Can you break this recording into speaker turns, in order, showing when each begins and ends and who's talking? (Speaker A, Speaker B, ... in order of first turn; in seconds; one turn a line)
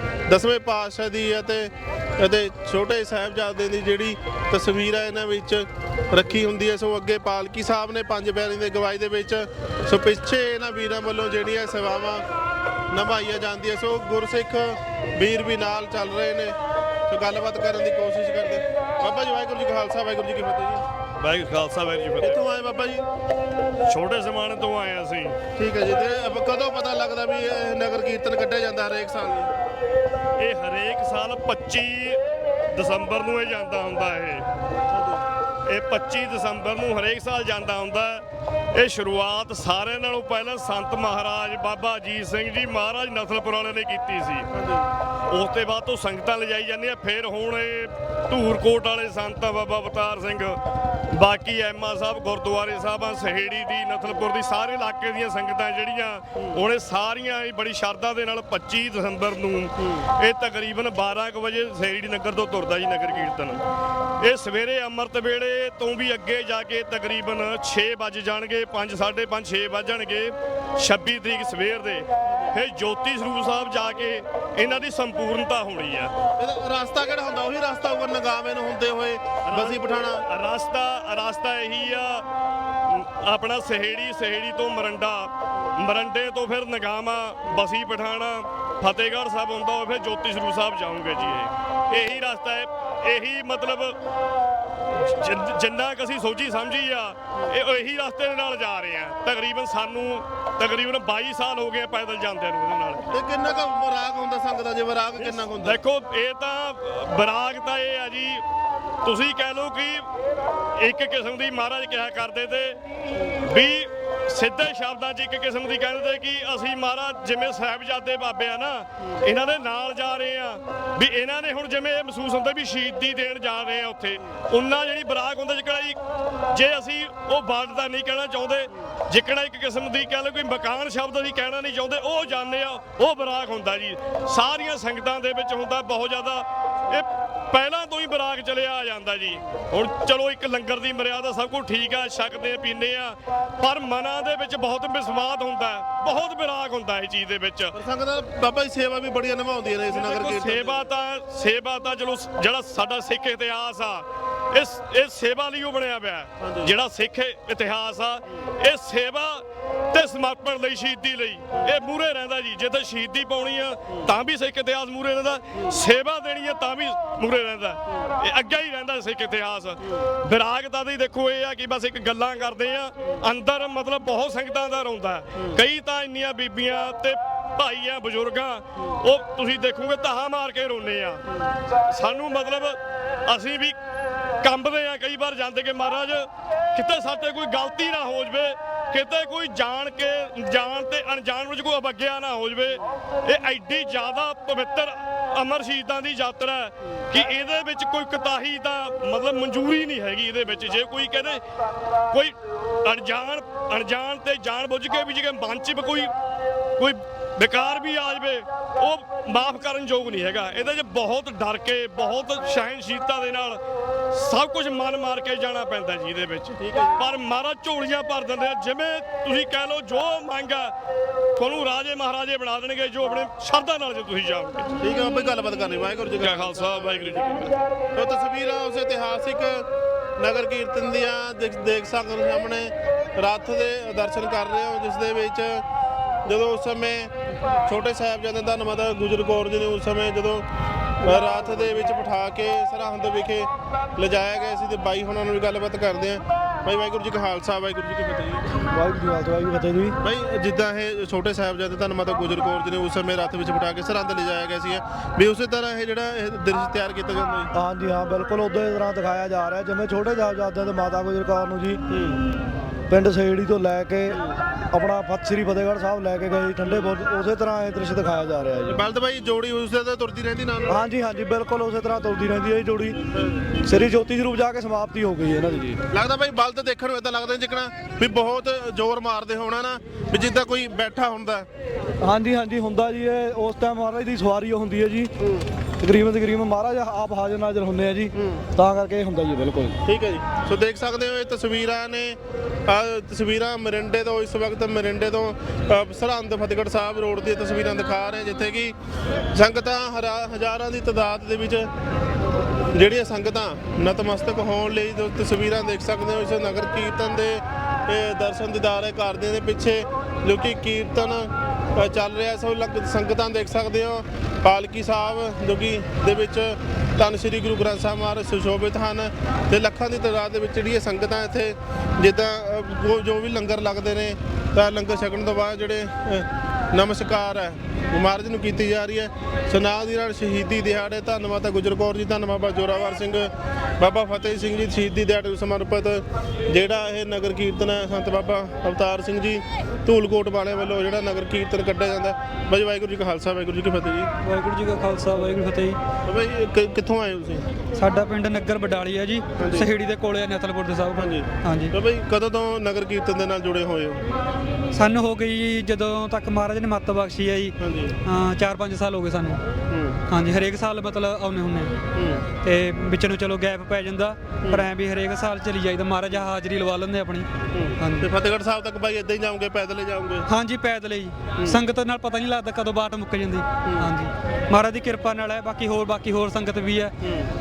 Speaker A: 0.3-12.2
Speaker A: 12.9-16.6
Speaker A: 17.1-20.8
Speaker B: 21.2-22.4
Speaker A: 22.2-23.1
Speaker B: 23.9-25.4
Speaker A: 25.6-29.5
Speaker B: 30.4-32.2
Speaker B: 32.7-34.5
Speaker A: 34.9-35.2
Speaker B: 35.7-44.5
Speaker A: 44.5-44.9
Speaker B: 45.3-50.6
Speaker B: 51.1-63.6
Speaker A: 56.4-56.6
Speaker A: 59.8-60.0
Speaker B: 64.2-76.1
Speaker A: 72.2-72.5
Speaker A: 76.4-80.2
Speaker B: 79.5-82.2
Speaker B: 82.8-94.0
Speaker A: 91.9-92.2
Speaker B: 94.9-103.2
Speaker A: 103.1-105.8
Speaker B: 105.2-108.4
Speaker B: 109.0-110.0
Speaker B: 110.8-112.8
Speaker B: 113.4-126.0
Speaker B: 126.5-147.7
Speaker A: 147.7-150.8
Speaker B: 149.9-181.2
Speaker A: 156.4-156.7
Speaker B: 181.9-183.8
Speaker B: 184.4-201.4
Speaker B: 202.1-206.1
Speaker B: 206.8-213.6
Speaker B: 214.1-220.7
Speaker A: 216.6-217.0
Speaker B: 221.4-224.7
Speaker A: 224.8-227.4
Speaker B: 226.2-227.5
Speaker A: 227.9-229.7
Speaker A: 230.2-235.6
Speaker A: 236.2-237.1
Speaker A: 237.7-240.4
Speaker A: 241.0-248.6
Speaker C: 248.7-249.9
Speaker A: 250.0-257.5
Speaker C: 257.5-261.8
Speaker C: 262.9-264.2
Speaker A: 264.1-264.4
Speaker C: 264.7-268.8
Speaker A: 268.7-270.8
Speaker C: 270.7-273.0
Speaker A: 273.1-273.6
Speaker C: 273.6-275.8
Speaker A: 275.9-281.5
Speaker C: 282.0-285.1
Speaker A: 285.2-285.4
Speaker C: 285.8-289.8
Speaker A: 288.1-288.4
Speaker A: 289.9-298.7
Speaker A: 299.3-301.7
Speaker A: 302.7-344.1
Speaker D: 344.2-345.8
Speaker A: 346.0-347.4
Speaker D: 347.8-351.7
Speaker A: 349.4-349.7
Speaker A: 350.9-354.1
Speaker D: 354.7-359.4
Speaker A: 357.6-357.9
Speaker A: 359.7-360.0
Speaker D: 360.1-361.7
Speaker A: 361.9-362.2
Speaker D: 362.4-368.1
Speaker A: 364.4-364.7
Speaker A: 367.5-370.3
Speaker D: 370.3-376.9
Speaker A: 377.0-377.3